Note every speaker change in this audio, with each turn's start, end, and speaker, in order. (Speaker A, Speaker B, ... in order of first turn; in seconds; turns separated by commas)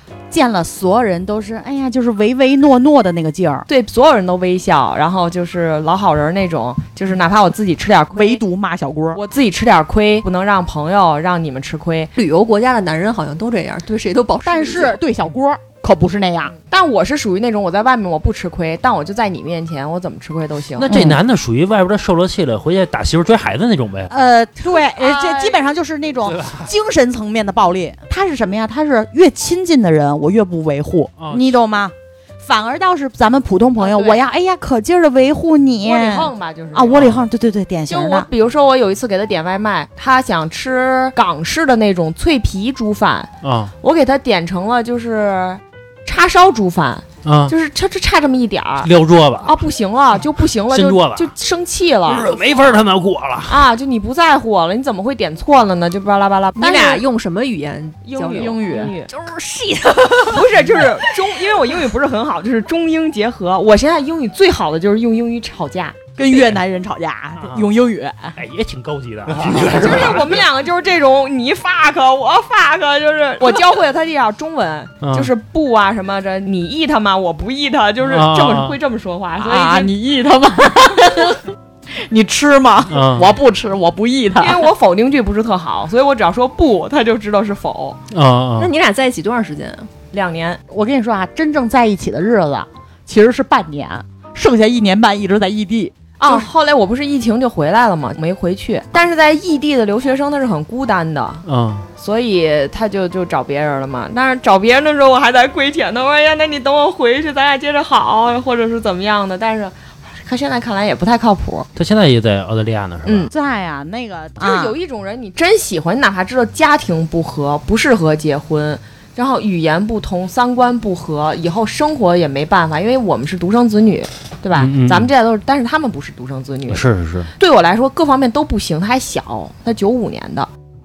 Speaker A: 0.3-3.7, Speaker B: 3.7-8.4, Speaker A: 8.1-9.2, Speaker B: 9.1-12.1, Speaker C: 12.2-15.0, Speaker A: 14.4-16.5, Speaker B: 16.7-20.9, Speaker D: 20.8-24.1, Speaker A: 20.9-21.2, Speaker A: 24.1-38.3, Speaker B: 24.6-25.6, Speaker D: 26.2-26.7, Speaker D: 31.2-31.5, Speaker B: 33.8-34.2, Speaker B: 35.8-37.2, Speaker B: 37.9-43.3, Speaker D: 43.4-43.7, Speaker B: 43.8-48.9, Speaker D: 47.2-47.5, Speaker D: 48.8-49.5, Speaker B: 49.4-52.8, Speaker D: 50.7-51.3, Speaker D: 52.0-53.6, Speaker B: 53.5-57.0, Speaker C: 56.6-61.0, Speaker B: 58.0-59.1, Speaker A: 58.3-58.9, Speaker B: 60.2-66.5, Speaker A: 66.2-68.3, Speaker D: 67.4-67.7, Speaker D: 68.3-70.5, Speaker B: 69.6-80.0, Speaker D: 75.0-75.3, Speaker D: 78.0-78.8, Speaker A: 79.4-81.4, Speaker A: 81.9-84.7, Speaker D: 82.9-83.3, Speaker B: 84.4-88.0, Speaker D: 88.1-88.7, Speaker C: 88.6-89.9, Speaker B: 90.1-90.6, Speaker A: 90.7-96.5, Speaker B: 96.2-101.5, Speaker D: 101.5-101.9, Speaker B: 102.0-109.7, Speaker B: 110.2-111.7, Speaker D: 111.8-113.3, Speaker B: 113.0-113.3, Speaker A: 113.3-114.8, Speaker B: 114.4-126.8, Speaker D: 124.5-125.1, Speaker D: 126.7-127.3, Speaker B: 127.4-130.5